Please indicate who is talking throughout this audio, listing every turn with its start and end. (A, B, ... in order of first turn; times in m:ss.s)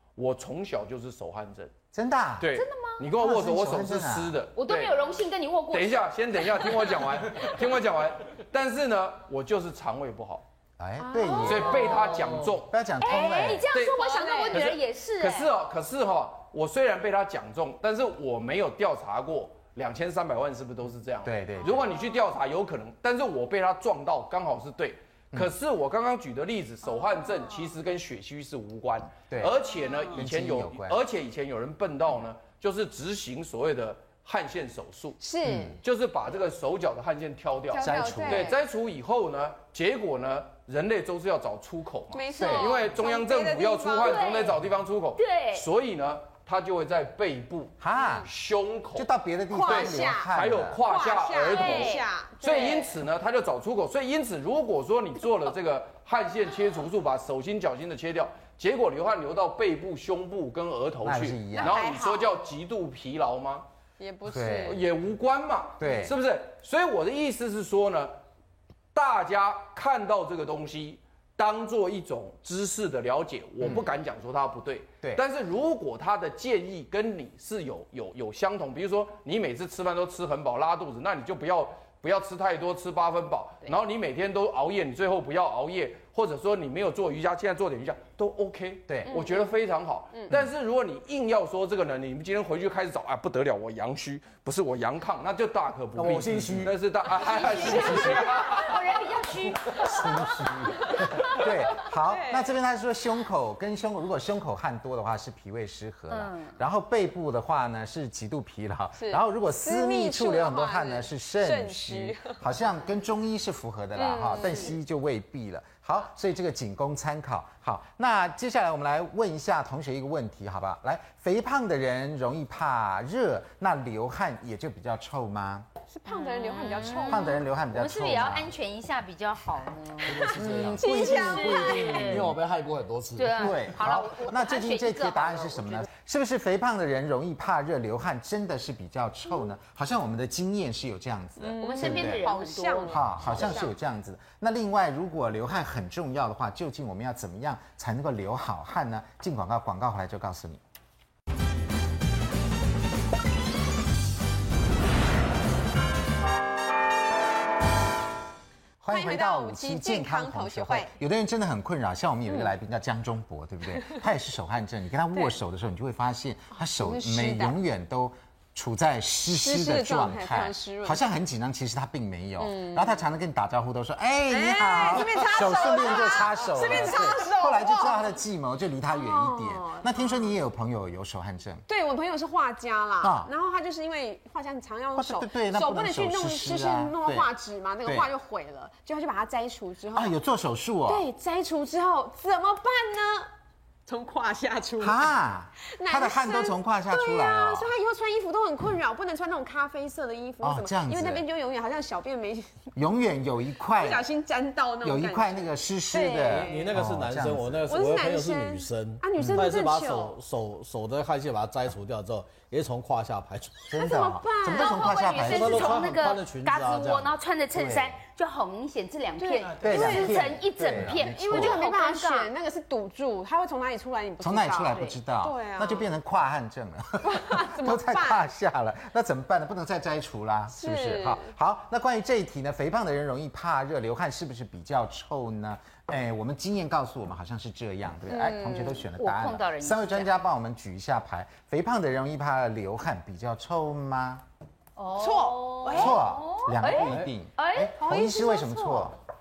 0:00.2-0:01.7 A
0:01.9-0:02.6 B
0:02.4-0:05.0 A
0:02.5-0:03.1 C
0:03.2-0:04.4 B
0:04.6-0:07.0 C
0:05.7-0:10.4 A
0:10.8-0:13.7 B
0:11.0-0:12.0 D
0:11.4-0:12.8 A
0:11.4-0:12.1 C
0:13.0-0:15.5 C
0:13.0-0:14.6 D
0:13.7-0:35.2 A
0:21.2-0:21.9 B
0:29.3-0:29.6 B
0:30.1-0:31.0 B
0:35.2-0:35.8 D
0:35.4-0:35.8 B
0:35.8-0:49.1 A
0:37.7-0:38.6 D
0:37.8-0:38.6 B
0:42.1-0:44.3 D
0:42.4-0:42.8 B
0:44.0-0:44.6 C
0:45.2-0:45.7 C
0:47.8-0:48.3 B
0:47.9-0:48.3 D
0:49.0-0:50.8 B
0:49.5-0:50.3 D
0:49.7-1:03.7 A
0:50.8-0:53.0 D
0:51.4-0:52.0 C
1:01.0-1:01.8 B
1:01.5-1:02.3 D
1:04.0-1:04.8 D
1:04.3-1:04.8 B
1:04.7-1:08.2 A
1:05.8-1:06.2 B
1:08.9-1:39.0 A
1:13.6-1:13.9 B
1:28.9-1:29.1 B
1:29.1-1:29.4 D
1:36.0-1:36.7 E
1:37.1-1:40.9 C
1:37.7-1:38.2 E
1:39.8-2:05.7 B
1:42.0-1:42.5 D
1:46.1-1:46.6 C
1:49.0-1:52.4 D
1:54.0-1:54.7 D
2:05.9-2:07.4 D
2:06.1-2:12.4 C
2:07.1-2:08.5 B
2:10.0-2:10.9 E
2:10.4-2:12.0 B
2:10.8-2:12.0 D
2:11.5-2:13.7 E
2:13.2-2:15.9 C
2:13.3-2:22.3 B
2:21.4-2:23.7 D
2:21.6-2:23.7 C
2:22.9-2:30.6 B
2:38.8-3:01.6 B
2:38.9-2:40.9 D
2:46.6-2:47.6 D
2:49.3-2:51.0 D
2:52.4-2:53.0 D
2:54.3-2:58.2 D
2:58.9-3:00.4 D
3:01.7-3:10.1 D
3:03.0-3:03.3 B
3:04.9-3:07.3 B
3:07.8-3:08.1 B
3:09.9-3:11.1 B
3:10.9-3:13.3 D
3:13.9-3:15.1 D
3:14.8-3:17.7 B
3:15.8-3:22.5 D
3:20.4-3:21.2 B
3:22.8-3:24.0 B
3:23.8-3:26.8 D
3:24.8-3:27.6 B
3:26.2-3:33.7 E
3:27.7-3:30.2 D
3:29.2-3:29.5 B
3:33.7-3:35.8 B
3:33.8-3:35.1 D
3:34.4-3:42.3 C
3:35.2-3:37.2 E
3:37.5-3:38.0 B
3:39.2-3:40.3 D
3:39.6-3:41.6 B
3:40.9-3:45.9 D
3:44.2-4:04.2 B
3:47.0-3:48.3 D
3:50.5-3:51.3 D
3:58.1-3:58.8 D
3:59.0-4:00.1 C
4:04.8-4:07.8 C
4:05.0-4:06.0 D
4:05.7-4:09.0 B
4:06.7-4:07.1 E
4:07.8-4:08.9 D